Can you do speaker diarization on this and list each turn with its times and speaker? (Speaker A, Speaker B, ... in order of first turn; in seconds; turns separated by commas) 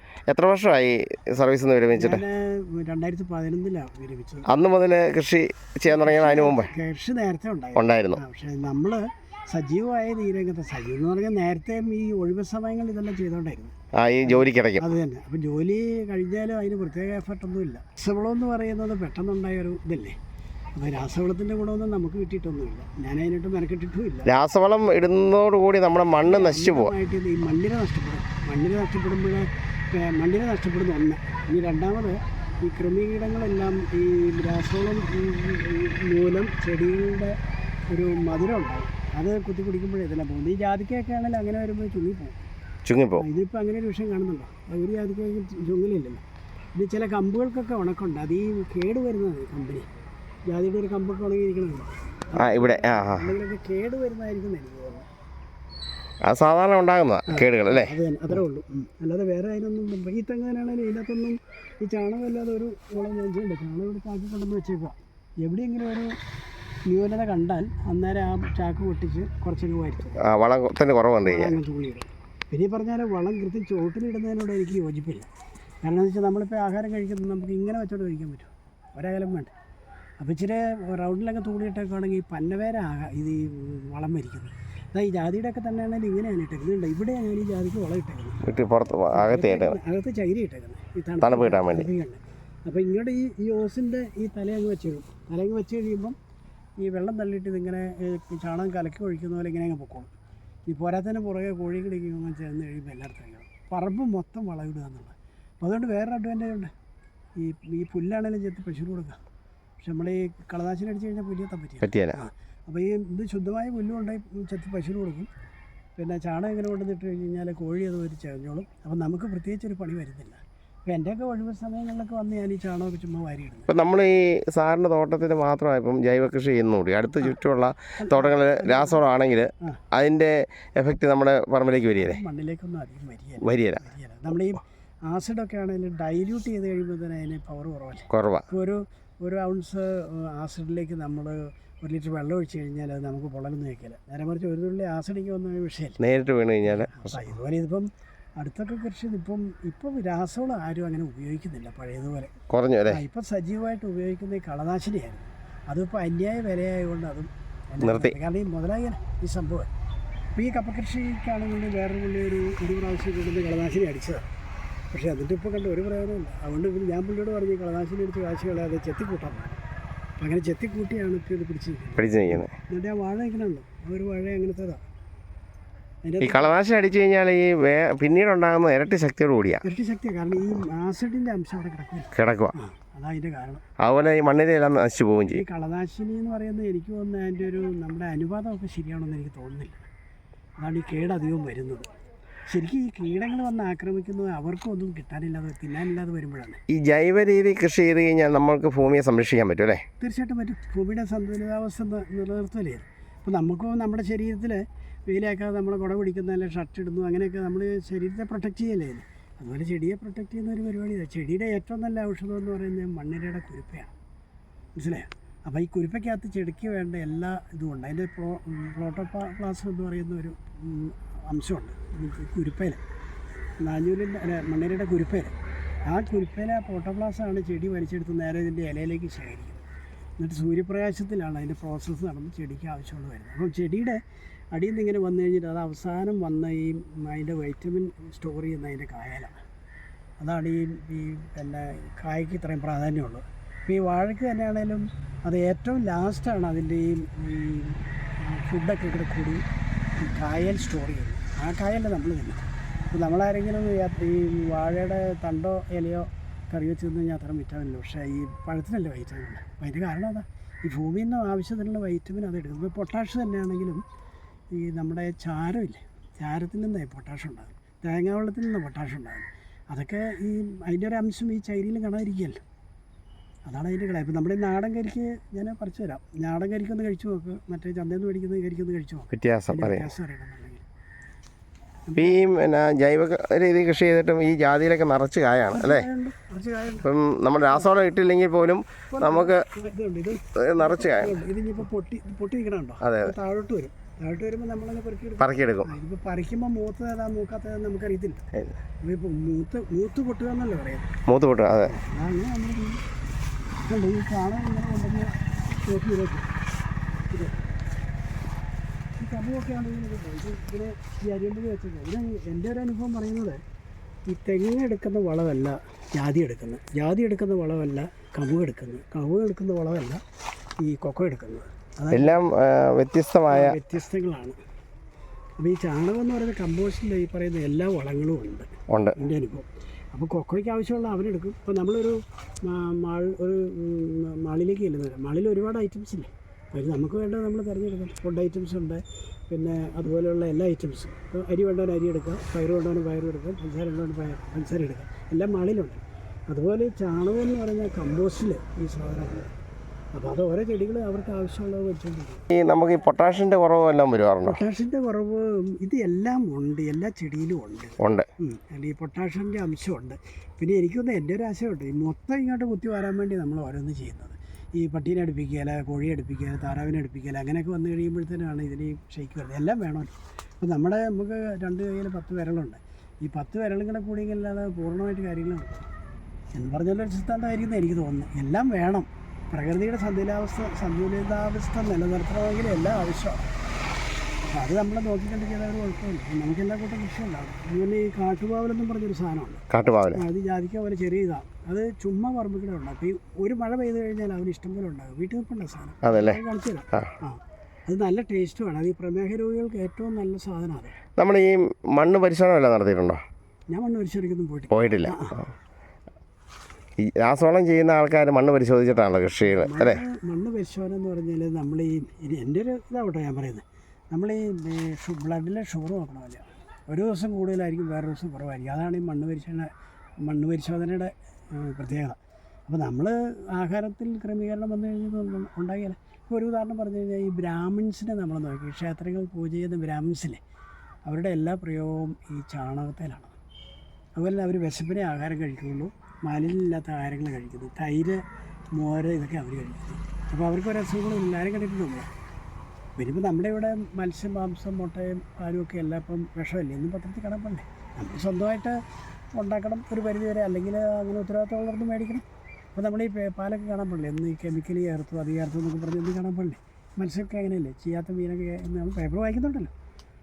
Speaker A: 0.3-2.2, Speaker B: 1.9-4.5, Speaker A: 4.5-6.7, Speaker B: 5.8-13.7, Speaker A: 7.8-8.2, Speaker A: 14.0-14.8, Speaker B: 14.2-20.1, Speaker B: 20.8-24.3, Speaker A: 24.2-26.9, Speaker B: 26.2-37.4, Speaker B: 37.9-42.4, Speaker A: 42.9-43.2, Speaker B: 43.2-46.2, Speaker B: 46.8-49.9, Speaker B: 50.5-55.1, Speaker A: 52.4-53.3, Speaker A: 56.2-57.9, Speaker B: 57.3-66.2, Speaker B: 66.9-70.2, Speaker A: 70.2-71.6, Speaker B: 71.2-75.3, Speaker B: 75.8-79.5, Speaker B: 80.2-88.5, Speaker A: 88.4-89.8, Speaker B: 89.1-96.2, Speaker A: 91.2-91.9, Speaker B: 96.8-100.1, Speaker B: 100.7-106.7, Speaker B: 107.4-109.2, Speaker B: 109.8-115.3, Speaker A: 111.8-112.2, Speaker B: 116.0-123.7, Speaker A: 123.7-132.2, Speaker B: 128.0-129.0, Speaker B: 131.9-146.0, Speaker A: 133.4-133.8, Speaker A: 138.1-138.5, Speaker A: 146.0-147.3, Speaker B: 146.7-152.3, Speaker A: 152.5-153.0, Speaker B: 152.9-159.7, Speaker A: 157.8-158.1, Speaker B: 160.3-164.2, Speaker B: 164.9-169.6, Speaker B: 170.2-174.8, Speaker A: 172.0-172.5, Speaker B: 176.0-176.5, Speaker A: 176.2-179.6, Speaker B: 179.6-183.6, Speaker A: 182.1-182.5, Speaker A: 183.8-185.4, Speaker B: 185.3-189.8, Speaker B: 190.6-191.9, Speaker B: 192.5-196.6, Speaker A: 196.7-199.8, Speaker B: 200.0-213.9, Speaker B: 214.8-222.8, Speaker B: 223.6-225.3, Speaker B: 225.8-229.6, Speaker B: 230.2-234.0, Speaker B: 234.5-239.4, Speaker B: 240.2-249.4, Speaker B: 250.0-263.8, Speaker B: 264.5-272.4, Speaker B: 273.4-280.6, Speaker A: 279.1-279.9, Speaker B: 281.9-282.2, Speaker A: 282.0-285.9, Speaker B: 285.5-286.9, Speaker A: 286.8-289.4, Speaker B: 288.9-298.2, Speaker A: 290.4-291.2, Speaker A: 292.8-293.1, Speaker A: 295.2-295.7, Speaker B: 298.8-300.9, Speaker A: 301.1-301.7, Speaker B: 301.6-302.8, Speaker B: 303.6-306.3, Speaker B: 307.1-307.4, Speaker B: 309.0-313.4, Speaker B: 314.1-320.0, Speaker B: 320.6-322.1, Speaker A: 321.9-323.6, Speaker B: 323.3-324.4, Speaker B: 325.4-349.3, Speaker A: 328.7-329.0, Speaker B: 349.9-352.2, Speaker A: 352.3-354.4, Speaker B: 354.2-375.7, Speaker A: 357.8-358.1, Speaker B: 376.3-383.3, Speaker B: 384.2-400.8, Speaker A: 389.5-390.0, Speaker A: 395.8-396.2, Speaker A: 401.0-403.0, Speaker B: 403.5-405.2, Speaker A: 404.5-405.2, Speaker A: 406.8-409.8, Speaker B: 409.2-419.5, Speaker B: 420.0-430.2, Speaker B: 430.9-433.1, Speaker B: 434.0-438.0, Speaker B: 438.5-441.9, Speaker B: 442.8-448.6, Speaker B: 449.1-452.0, Speaker B: 452.5-459.5